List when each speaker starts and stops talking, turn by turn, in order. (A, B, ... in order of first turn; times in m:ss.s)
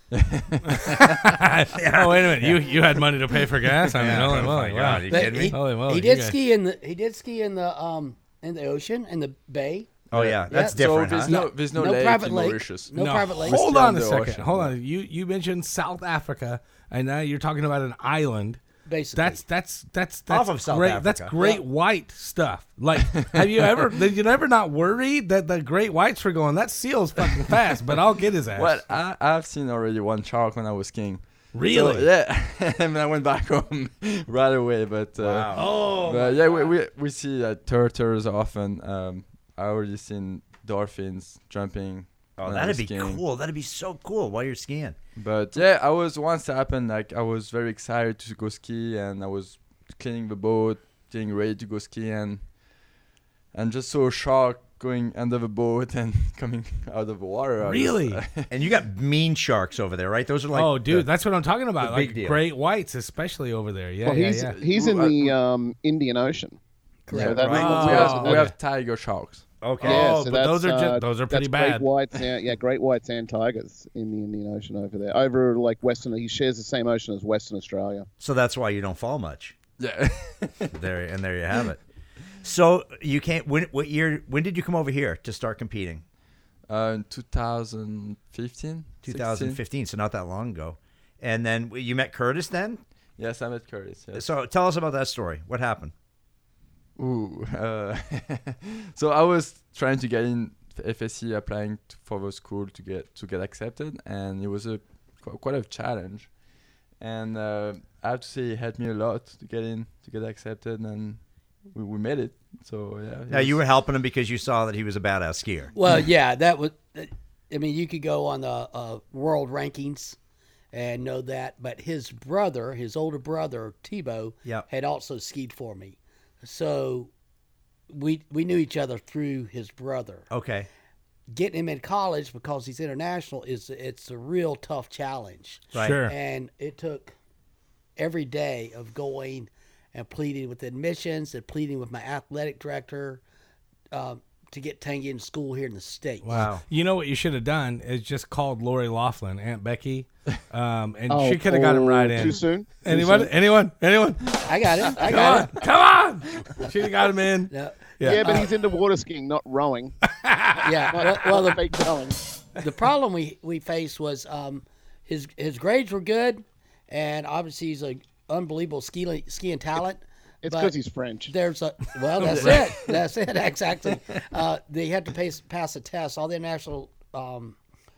0:00.1-0:01.3 A
0:00.7-0:06.4 B
0:01.7-0:02.6 C
0:03.9-0:05.6 C
0:04.0-0:04.5 A
0:05.1-0:09.9 D
0:10.1-0:11.4 C
0:10.1-0:14.7 A
0:10.5-0:13.6 D
0:12.9-0:18.6 B
0:18.8-0:19.4 D
0:19.1-0:28.8 B
0:20.3-0:21.4 C
0:23.1-0:23.6 A
0:28.6-0:43.2 A
0:31.5-0:32.1 B
0:35.2-0:36.7 C
0:35.5-0:35.9 B
0:42.4-0:45.0 C
0:45.2-0:52.4 A
0:53.5-0:58.5 A
0:57.6-0:58.2 B
0:58.5-1:01.1 C
1:00.5-1:04.6 B
1:01.8-1:02.4 C
1:04.0-1:06.6 E
1:04.5-1:05.3 A
1:07.1-1:07.5 D
1:07.1-1:08.5 E
1:07.1-1:07.9 C
1:07.2-1:09.4 A
1:07.4-1:08.5 B
1:09.6-1:10.1 C
1:09.8-1:18.1 E
1:09.8-1:11.9 B
1:18.2-1:19.6 C
1:19.8-1:20.7 A
1:20.7-1:21.8 C
1:22.4-1:26.0 C
1:26.7-1:29.6 A
1:29.0-1:32.8 C
1:33.2-1:34.3 A
1:34.1-1:35.9 C
1:37.0-1:46.3 A
1:47.0-1:51.2 A
1:51.7-1:53.6 A
1:53.3-1:55.7 C
1:55.7-2:00.2 D
2:00.7-2:07.1 D
2:07.9-2:10.3 D
2:10.3-2:10.7 C
2:11.3-2:17.1 D
2:15.7-2:16.0 C
2:15.7-2:16.1 B
2:18.0-2:23.2 D
2:23.9-2:26.3 D
2:26.2-2:38.5 B
2:26.3-2:26.6 C
2:31.1-2:33.3 E
2:34.4-2:35.6 D
2:37.5-2:38.5 D
2:38.0-2:40.0 E
2:40.1-2:40.6 B
2:40.6-2:41.9 D
2:40.6-2:42.2 E
2:42.6-2:50.7 D
2:50.4-2:51.3 E
2:51.3-2:57.6 D
2:52.2-2:52.7 B
2:52.2-2:52.7 A